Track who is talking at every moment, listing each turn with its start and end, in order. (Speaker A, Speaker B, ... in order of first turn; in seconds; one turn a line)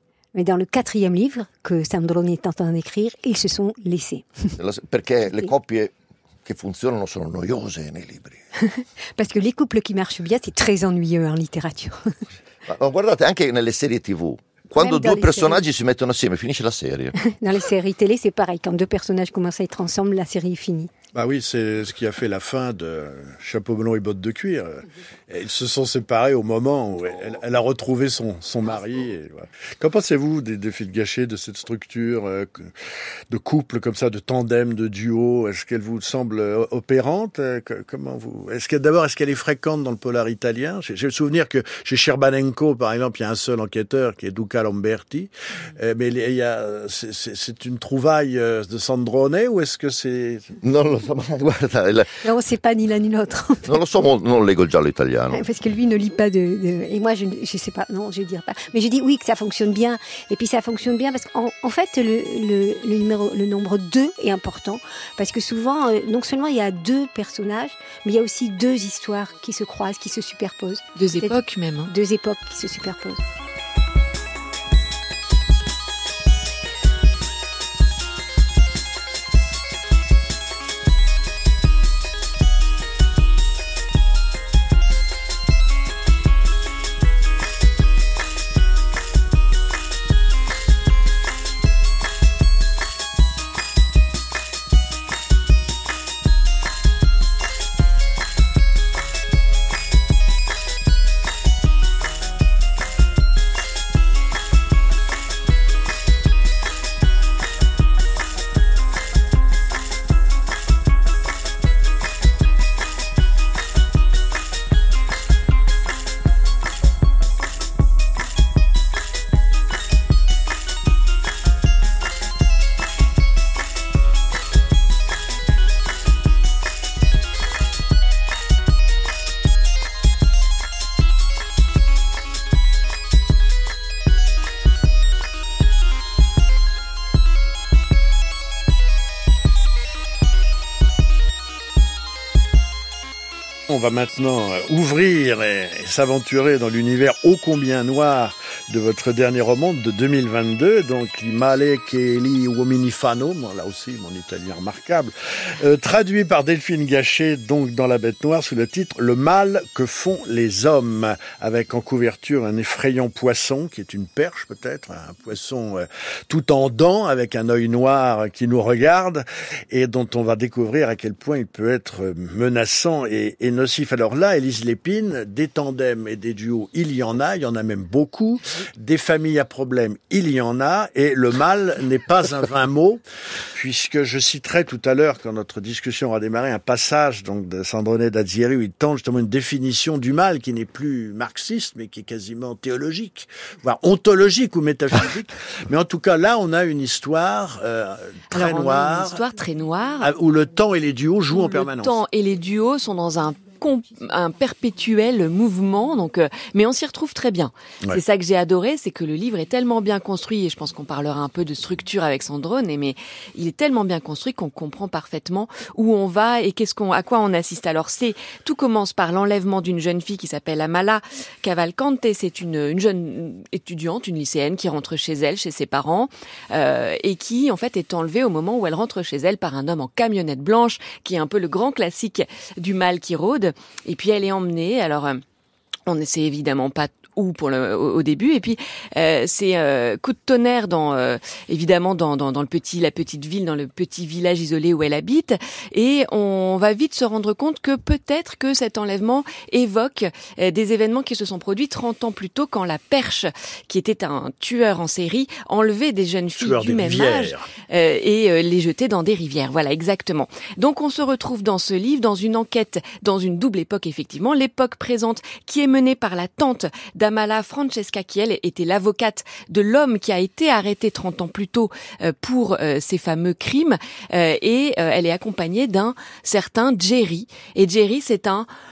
Speaker A: 0.3-4.5
Speaker B: 4.6-5.9
Speaker B: 6.5-8.4
Speaker A: 8.6-12.1
Speaker B: 12.7-17.2
Speaker A: 14.8-15.6
Speaker A: 17.2-20.9
Speaker C: 21.1-32.7
Speaker C: 33.3-50.6
Speaker B: 50.6-52.2
Speaker A: 52.2-53.7
Speaker B: 53.6-55.4
Speaker A: 55.3-73.2
Speaker D: 71.0-71.9
Speaker C: 143.7-183.0
Speaker C: 183.5-199.2
Speaker D: 198.3-200.1
Speaker C: 200.0-202.0
Speaker D: 201.3-235.2
Speaker D: 235.9-278.5
Speaker C: 256.4-257.5